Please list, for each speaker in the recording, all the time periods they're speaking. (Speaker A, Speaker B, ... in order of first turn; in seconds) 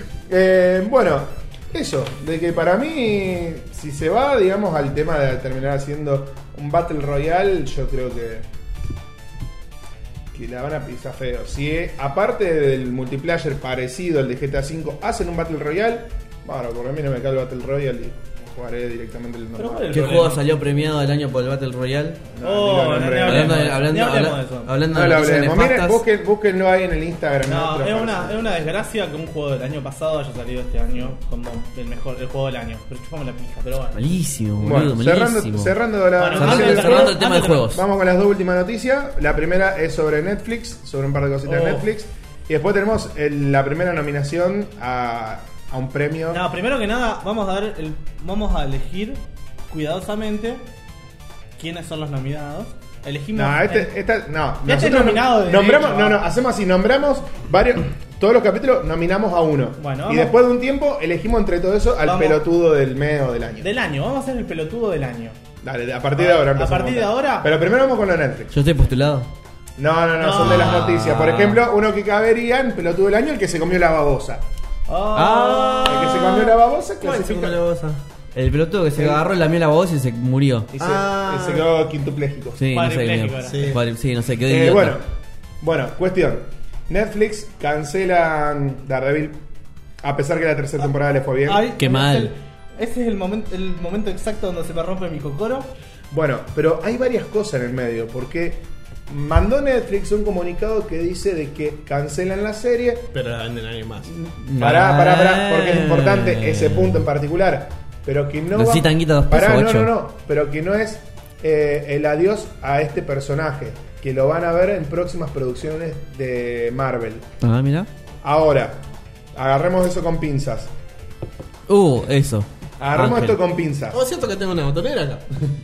Speaker A: 0.3-8.5, 10.3-20.3, 22.3-23.6, 24.9-28.5, 34.6-46.4, 53.3-63.7, 65.6-68.5, 69.8-74.4, 75.8-77.6, 79.0-79.2, 80.7-82.6, 84.5-85.0, 85.6-89.4, 90.0-91.7, 96.1-103.1, 104.1-117.2, 118.2-118.8, 119.3-120.7, 122.8-124.0
Speaker B: 19.6-20.4, 22.4-24.7, 27.5-34.0, 36.2-37.7, 41.5-41.9, 46.3-49.2, 49.7-50.6, 51.6-53.9, 54.6-56.2, 59.8-60.4, 62.0-62.4, 63.6-65.4, 66.2-67.5, 70.2-70.8, 74.9-76.5, 82.7-83.7, 91.5-95.7
Speaker C: 19.9-22.2, 23.2-26.0, 33.9-35.8, 36.4-37.8, 68.5-69.3, 70.4-71.6, 75.2-76.2, 78.3-80.7, 82.6-85.0, 91.8-92.3, 104.4-107.0, 108.5-109.9, 117.4-117.9, 121.7-123.4
Speaker D: 75.2-75.5, 77.0-78.0, 80.8-81.7, 83.4-83.8, 103.1-104.1, 123.9-125.3